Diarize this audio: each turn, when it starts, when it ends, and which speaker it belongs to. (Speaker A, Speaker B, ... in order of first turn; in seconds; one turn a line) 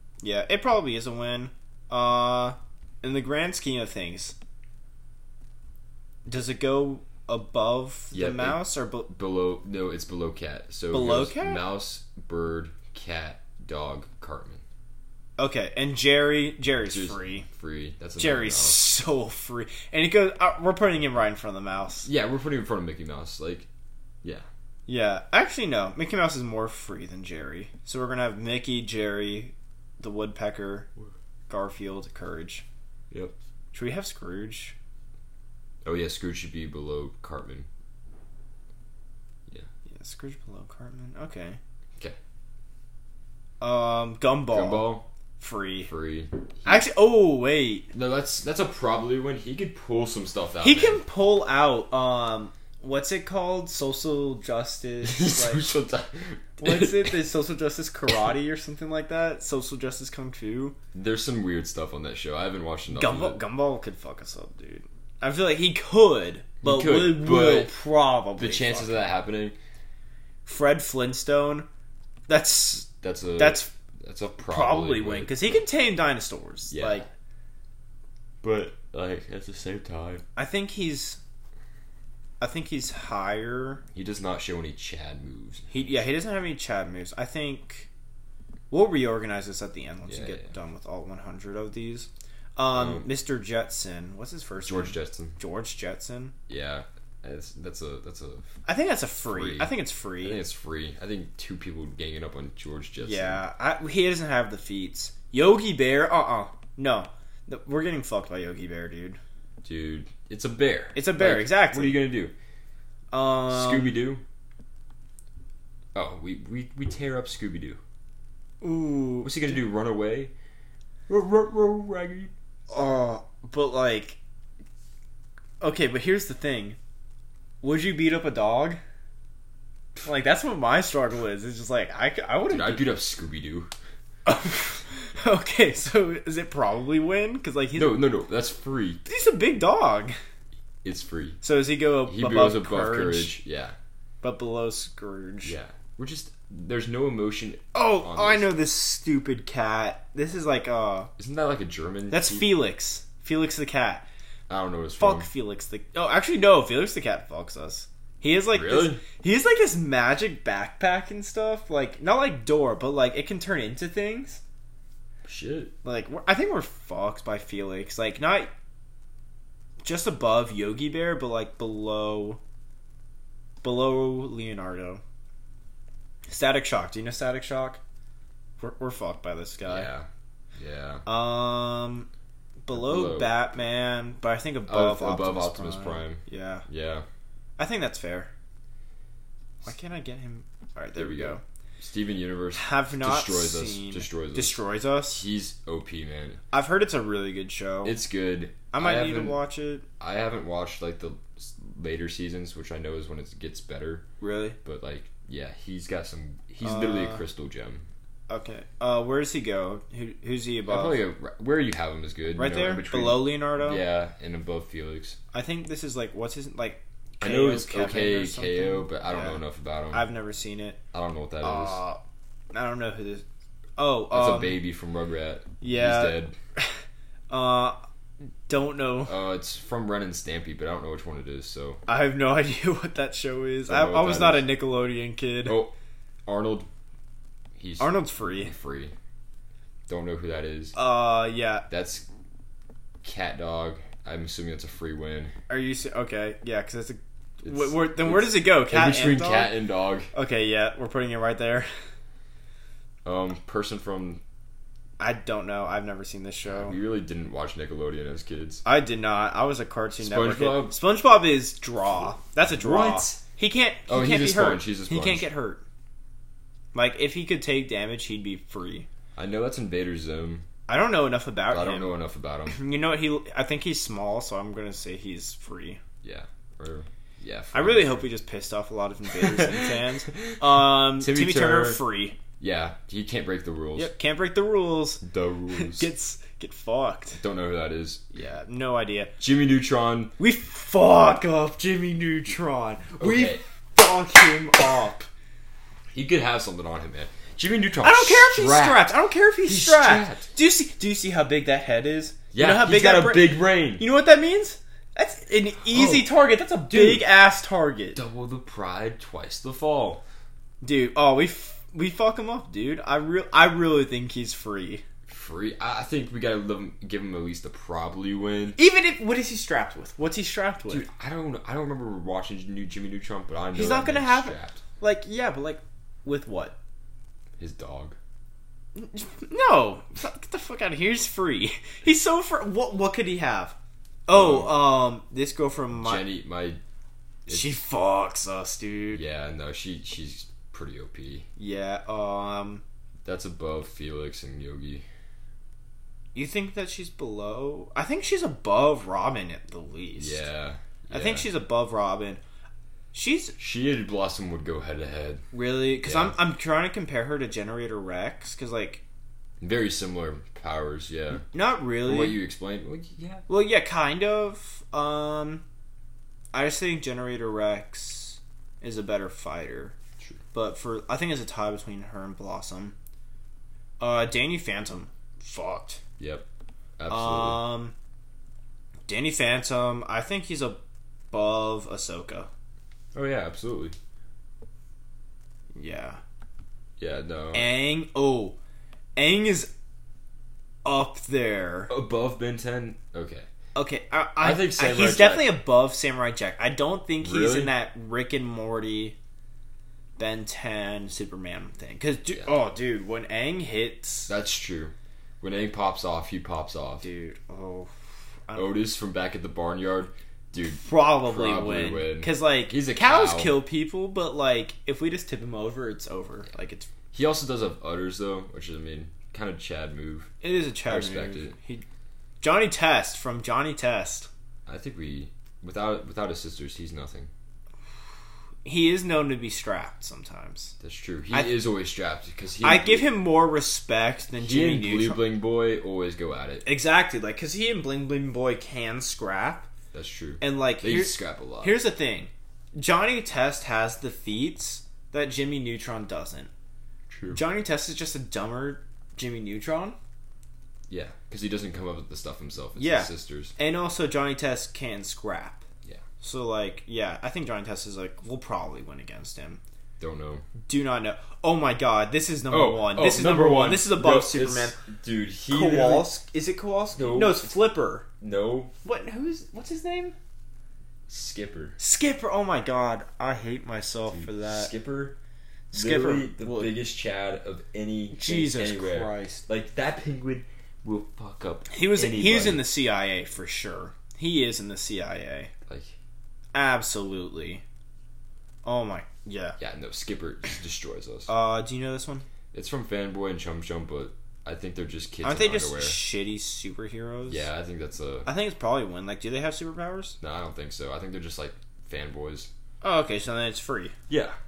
Speaker A: 0.2-4.3
Speaker A: 6.3-9.1
Speaker B: 8.1-14.6
Speaker A: 10.9-11.6
Speaker A: 15.4-17.5
Speaker B: 16.8-18.9
Speaker A: 18.2-22.1
Speaker B: 22.0-23.7
Speaker A: 24.9-30.9
Speaker A: 31.5-32.6
Speaker A: 33.7-34.8
Speaker B: 35.8-37.7
Speaker A: 39.9-41.6
Speaker A: 43.6-45.9
Speaker B: 44.5-45.1
Speaker B: 45.9-46.9
Speaker A: 46.6-47.9
Speaker B: 47.9-51.0
Speaker A: 50.6-55.7
Speaker B: 55.0-57.2
Speaker A: 56.6-60.8
Speaker B: 60.9-63.4
Speaker A: 62.9-69.1
Speaker B: 66.6-67.8
Speaker B: 68.4-69.5
Speaker A: 70.5-71.7
Speaker A: 72.3-73.7
Speaker B: 73.0-75.6
Speaker A: 74.4-77.0
Speaker B: 76.7-77.0
Speaker B: 78.4-80.2
Speaker A: 80.3-81.2
Speaker A: 82.4-83.8
Speaker B: 83.9-85.7
Speaker A: 85.7-87.9
Speaker A: 88.7-96.3
Speaker B: 90.1-90.5
Speaker B: 92.7-93.1
Speaker B: 94.6-95.4
Speaker B: 96.5-98.5
Speaker A: 98.7-100.4
Speaker B: 99.2-103.4
Speaker A: 103.0-109.2
Speaker B: 109.6-112.3
Speaker A: 110.9-112.0
Speaker A: 113.1-114.0
Speaker B: 113.5-114.2
Speaker B: 115.9-117.8
Speaker A: 118.6-119.5
Speaker B: 119.2-120.3
Speaker B: 121.1-122.3
Speaker A: 122.7-124.2
Speaker A: 125.6-126.8
Speaker A: 127.6-128.8
Speaker A: 130.0-132.9
Speaker B: 132.5-133.7
Speaker A: 134.2-138.0
Speaker B: 137.7-139.0
Speaker A: 139.1-140.1
Speaker B: 140.8-141.4
Speaker A: 141.4-143.4
Speaker B: 142.1-143.8
Speaker A: 144.2-145.5
Speaker B: 145.4-148.6
Speaker A: 147.7-151.1
Speaker B: 151.2-152.5
Speaker A: 152.1-154.0
Speaker B: 154.5-155.3
Speaker A: 155.0-164.4
Speaker B: 158.5-159.0
Speaker B: 165.2-165.7
Speaker A: 165.8-168.5
Speaker A: 169.8-172.4
Speaker A: 173.6-175.0
Speaker A: 176.3-177.8
Speaker A: 178.6-179.9
Speaker B: 179.7-181.0
Speaker A: 181.1-182.1
Speaker A: 182.7-186.6
Speaker B: 182.7-183.3
Speaker B: 184.7-187.1
Speaker A: 187.6-188.3
Speaker A: 189.6-191.4
Speaker B: 190.9-194.6
Speaker A: 192.5-195.2
Speaker B: 195.1-196.4
Speaker A: 196.5-198.0
Speaker B: 197.8-199.4
Speaker A: 198.7-199.8
Speaker B: 200.0-204.0
Speaker A: 204.2-204.6
Speaker B: 204.6-207.8
Speaker A: 206.6-207.2
Speaker A: 208.3-211.0
Speaker B: 210.7-215.2
Speaker A: 212.3-213.8
Speaker A: 215.3-220.8
Speaker B: 217.2-220.1
Speaker B: 220.9-221.8
Speaker A: 221.4-222.0
Speaker A: 222.5-223.2
Speaker A: 223.8-224.6
Speaker B: 224.1-226.3
Speaker A: 225.6-226.8
Speaker A: 227.3-227.8
Speaker A: 228.5-229.1
Speaker B: 229.1-231.8
Speaker A: 231.9-235.6
Speaker B: 233.7-234.5
Speaker B: 235.4-235.7
Speaker B: 236.2-236.7
Speaker B: 237.6-238.9
Speaker A: 237.8-238.5
Speaker B: 239.9-240.8
Speaker A: 240.7-241.7
Speaker B: 241.7-242.1
Speaker B: 243.0-245.3
Speaker A: 245.5-249.5
Speaker B: 247.4-250.1
Speaker A: 250.1-251.7
Speaker B: 253.0-254.2
Speaker A: 255.0-256.8
Speaker B: 256.4-258.6
Speaker A: 258.6-265.6
Speaker B: 260.0-260.8
Speaker B: 262.5-263.2
Speaker B: 263.9-265.3
Speaker A: 266.7-268.9
Speaker B: 269.1-270.4
Speaker A: 270.7-271.9
Speaker B: 271.5-272.6
Speaker A: 272.5-275.8
Speaker B: 276.0-278.0
Speaker A: 277.5-282.2
Speaker B: 279.2-281.8
Speaker B: 282.4-283.9
Speaker A: 283.8-287.2
Speaker B: 285.0-285.9
Speaker B: 287.2-288.0
Speaker A: 288.1-289.1
Speaker B: 289.2-290.1
Speaker A: 290.2-295.1
Speaker B: 293.0-293.4
Speaker B: 295.9-298.9
Speaker A: 297.8-308.0
Speaker B: 299.4-300.3
Speaker B: 302.3-303.8
Speaker B: 305.7-306.1
Speaker B: 306.7-307.1
Speaker B: 307.9-310.0
Speaker A: 310.6-314.8
Speaker B: 315.1-318.6
Speaker A: 318.6-320.9
Speaker B: 320.7-324.6
Speaker A: 323.5-326.6
Speaker B: 327.4-328.0
Speaker A: 328.7-333.6
Speaker A: 334.1-336.1
Speaker B: 334.1-334.6
Speaker B: 335.7-336.6
Speaker A: 337.2-339.0
Speaker B: 337.3-337.6
Speaker B: 338.9-341.3
Speaker A: 341.4-342.6
Speaker B: 343.0-344.8
Speaker A: 346.1-350.2
Speaker B: 350.0-351.2
Speaker A: 350.9-352.2
Speaker A: 352.9-353.4
Speaker B: 353.4-355.2
Speaker A: 355.3-358.8
Speaker B: 355.8-356.2
Speaker B: 359.4-361.2
Speaker A: 361.3-362.2
Speaker B: 361.8-363.2
Speaker A: 363.3-365.4
Speaker A: 366.3-369.8
Speaker A: 370.3-372.7
Speaker A: 373.8-375.8
Speaker B: 376.0-376.3
Speaker B: 376.8-377.4
Speaker A: 376.9-377.7
Speaker A: 378.9-380.6
Speaker A: 381.1-382.3
Speaker B: 382.9-383.8
Speaker A: 385.5-386.0
Speaker B: 386.8-387.5
Speaker A: 387.3-388.4
Speaker A: 388.9-389.5
Speaker A: 390.6-391.7
Speaker B: 391.7-393.3
Speaker A: 393.5-399.0
Speaker B: 394.2-395.4
Speaker B: 397.0-397.5
Speaker A: 400.0-404.1
Speaker B: 404.1-406.9
Speaker A: 406.8-407.7
Speaker A: 408.3-408.6
Speaker B: 408.3-413.4
Speaker A: 410.4-416.7
Speaker B: 416.9-420.1
Speaker A: 420.2-421.6
Speaker B: 420.6-421.3
Speaker A: 422.2-424.1
Speaker B: 424.4-427.1
Speaker A: 428.4-430.5
Speaker B: 430.6-432.9
Speaker A: 432.4-435.0
Speaker B: 434.2-436.4
Speaker A: 436.4-439.5
Speaker B: 439.7-441.6
Speaker A: 440.2-446.3
Speaker B: 446.9-447.2
Speaker A: 447.1-449.8
Speaker B: 450.7-453.3
Speaker A: 452.6-455.4
Speaker A: 456.0-459.4
Speaker B: 459.8-460.2
Speaker A: 460.4-464.6
Speaker B: 462.3-465.9
Speaker A: 465.3-467.9
Speaker B: 466.7-467.4
Speaker B: 468.0-468.5
Speaker A: 468.6-469.9
Speaker B: 470.9-471.6
Speaker A: 471.6-474.5
Speaker B: 473.9-475.0
Speaker A: 475.5-476.6
Speaker B: 475.5-482.5
Speaker A: 477.9-479.2
Speaker A: 481.5-485.3
Speaker B: 485.5-485.7
Speaker A: 486.3-487.4
Speaker A: 488.4-489.4
Speaker B: 489.4-491.1
Speaker A: 491.1-492.1
Speaker B: 492.3-495.8
Speaker A: 495.0-497.3
Speaker B: 497.1-498.1
Speaker A: 498.1-500.0
Speaker B: 500.0-502.3
Speaker A: 502.6-503.7
Speaker B: 503.9-504.2